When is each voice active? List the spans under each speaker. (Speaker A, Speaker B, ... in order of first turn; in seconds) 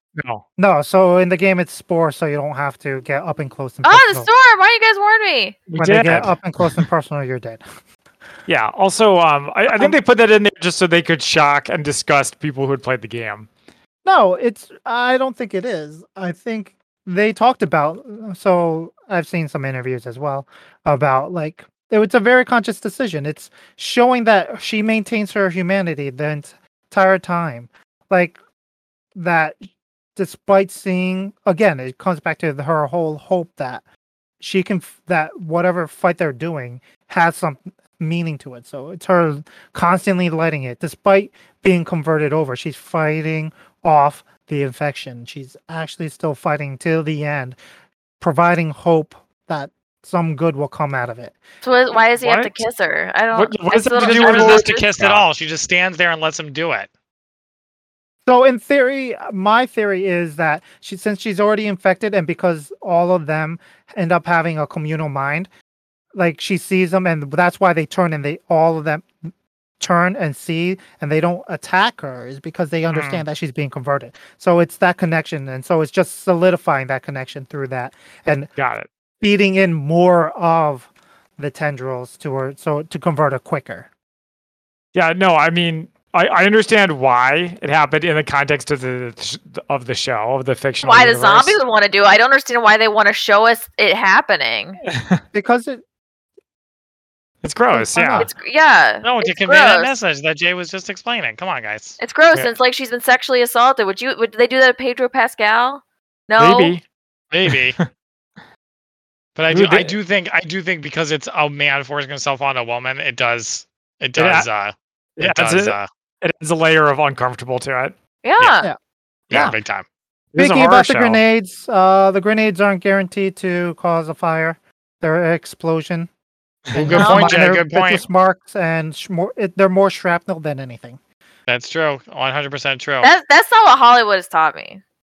Speaker A: 0.2-0.4, 5.7-6.8, 8.5-13.5, 52.2-52.6, 53.3-55.3, 72.9-73.2, 78.6-78.9, 84.9-91.6, 95.0-95.2, 97.4-98.3, 106.4-106.8, 107.5-107.8, 109.5-110.0, 114.2-114.5, 115.2-118.0, 119.3-119.6, 120.3-121.2, 126.7-127.2
Speaker B: 0.6-4.3, 5.8-7.6, 9.7-10.0, 14.1-28.4, 29.1-29.6, 30.2-33.8, 34.4-47.6, 48.2-51.4, 58.3-65.5, 66.1-69.1, 69.8-78.5, 79.2-83.9, 95.3-95.8, 97.7-98.3, 120.4-126.1, 126.7-131.0
Speaker C: 3.8-5.6, 51.6-54.9, 90.8-94.8, 98.2-99.9, 102.0-106.8, 118.2-118.7, 127.0-127.4, 133.0-134.8
Speaker D: 54.0-56.9, 99.0-102.0, 107.3-107.8, 109.4-115.9, 119.3-119.8, 126.8-128.0, 131.5-133.1